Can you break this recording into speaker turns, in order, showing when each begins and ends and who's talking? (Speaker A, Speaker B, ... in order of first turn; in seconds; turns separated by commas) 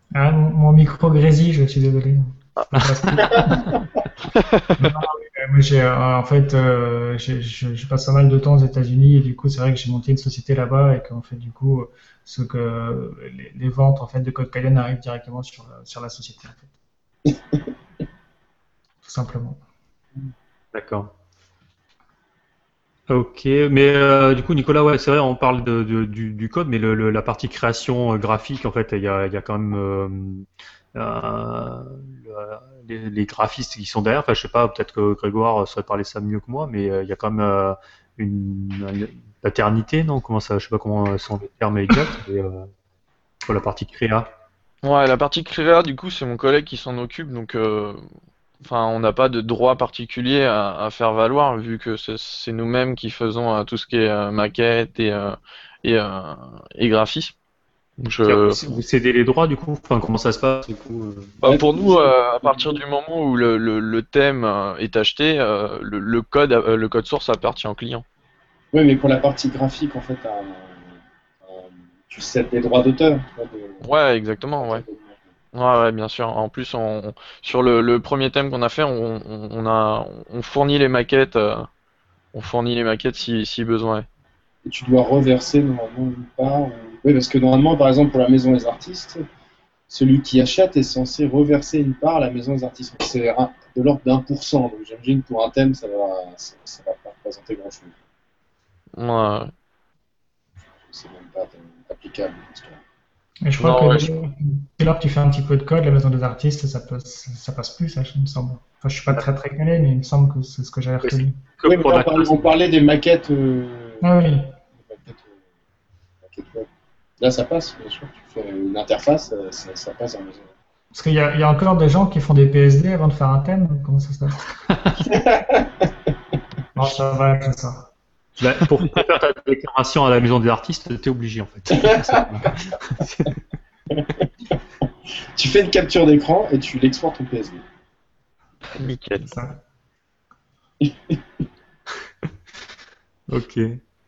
Speaker A: 0.1-3.8, Speaker B: 2.7-3.7, Speaker C: 4.3-4.6, Speaker A: 4.8-16.7, Speaker A: 19.0-19.6, Speaker B: 20.7-21.1, Speaker B: 23.1-42.7, Speaker B: 43.5-44.3, Speaker C: 44.8-48.0, Speaker C: 48.6-57.3, Speaker C: 58.0-58.6, Speaker B: 58.2-61.4, Speaker C: 61.4-68.0, Speaker D: 61.4-62.8, Speaker D: 68.7-70.9, Speaker D: 71.4-73.8, Speaker C: 73.8-74.8, Speaker D: 74.6-75.1, Speaker C: 75.5-81.7, Speaker C: 82.3-84.0, Speaker D: 84.6-89.2, Speaker D: 89.9-97.9, Speaker C: 99.0-99.5, Speaker D: 100.8-102.8, Speaker A: 103.4-111.4, Speaker C: 103.6-104.1, Speaker B: 111.0-112.5, Speaker D: 111.7-114.1, Speaker A: 114.0-114.5, Speaker D: 114.8-115.4, Speaker D: 116.2-116.7, Speaker D: 117.2-120.5, Speaker A: 120.9-124.5, Speaker B: 124.7-125.0, Speaker D: 125.0-125.9, Speaker A: 126.7-127.9, Speaker B: 128.4-133.3, Speaker D: 131.8-132.3, Speaker D: 133.9-134.5, Speaker D: 135.3-137.6, Speaker C: 138.8-139.2, Speaker B: 138.8-139.3, Speaker A: 139.3-139.5, Speaker D: 140.8-141.2, Speaker B: 143.3-143.8